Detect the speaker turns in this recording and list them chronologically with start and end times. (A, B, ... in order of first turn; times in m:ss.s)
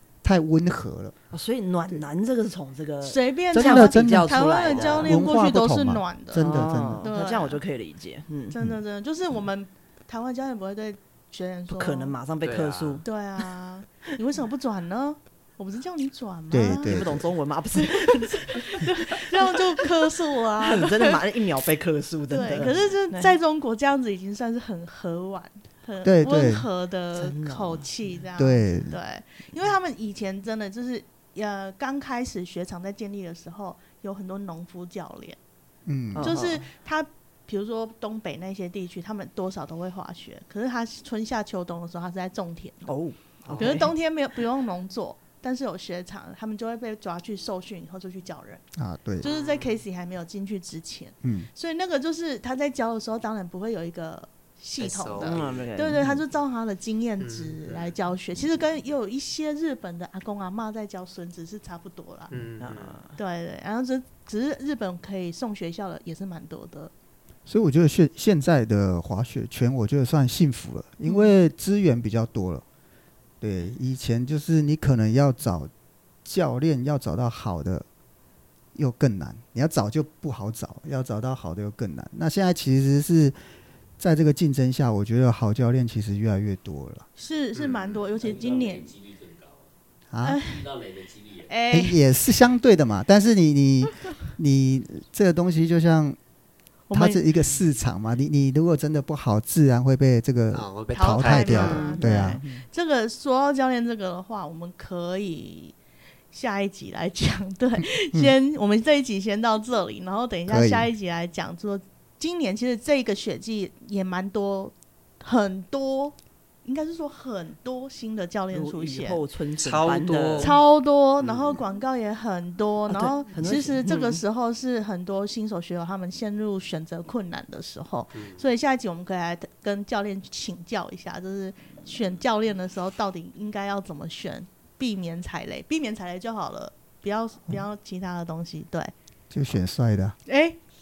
0:00.2-0:01.1 A
0:01.3-0:05.2 B
0:03.0-0:07.6 C
0:03.5-0:04.5 A
0:04.6-0:05.1 D
0:05.0-0:07.1 A
0:06.3-0:08.6 B
0:08.5-0:12.2 C
0:11.7-0:13.0 B
0:12.4-0:13.0 D
0:13.0-0:17.0 C
0:16.5-0:17.2 A
0:16.9-0:19.8 B
0:17.7-0:21.2 C
0:20.5-0:23.3 B
0:22.3-0:35.4 C
0:26.0-0:26.7 A
0:27.2-0:27.8 B
0:28.4-0:29.0 A
0:35.8-0:36.5 A
0:36.1-0:36.6 B
0:36.2-0:42.9 C
0:42.8-0:43.9 B
0:43.4-0:43.8 D
0:43.6-0:48.6 C
0:48.8-0:49.3 A
0:49.2-0:49.7 D
0:49.2-1:02.3 C
0:51.2-0:51.5 A
0:54.8-0:55.7 D
0:55.2-0:56.2 B
0:57.2-0:57.9 D
1:02.3-1:03.0 D
1:02.6-1:03.2 B
1:03.2-1:06.9 C
1:07.4-1:12.6 A
1:13.4-1:15.7 A
1:16.2-1:17.8 A
1:18.7-1:23.4 A
1:24.0-1:27.1 A
1:27.2-1:28.9 C
1:27.5-1:28.0 D
1:28.2-1:29.7 E
1:30.1-1:30.4 A
1:30.2-1:30.6 C
1:30.4-1:31.6 E
1:31.5-1:32.0 C
1:31.7-1:36.2 A
1:36.9-1:37.2 C
1:36.9-1:42.4 A
1:40.5-1:41.9 D
1:40.9-1:45.8 C
1:41.5-1:42.6 B
1:46.3-1:59.2 C
1:50.5-1:50.9 A
1:58.5-2:00.6 B
1:59.6-2:00.6 D
2:00.4-2:18.9 C
2:02.9-2:04.2 B
2:08.1-2:08.4 D
2:19.3-2:20.2 A
2:20.3-2:20.6 C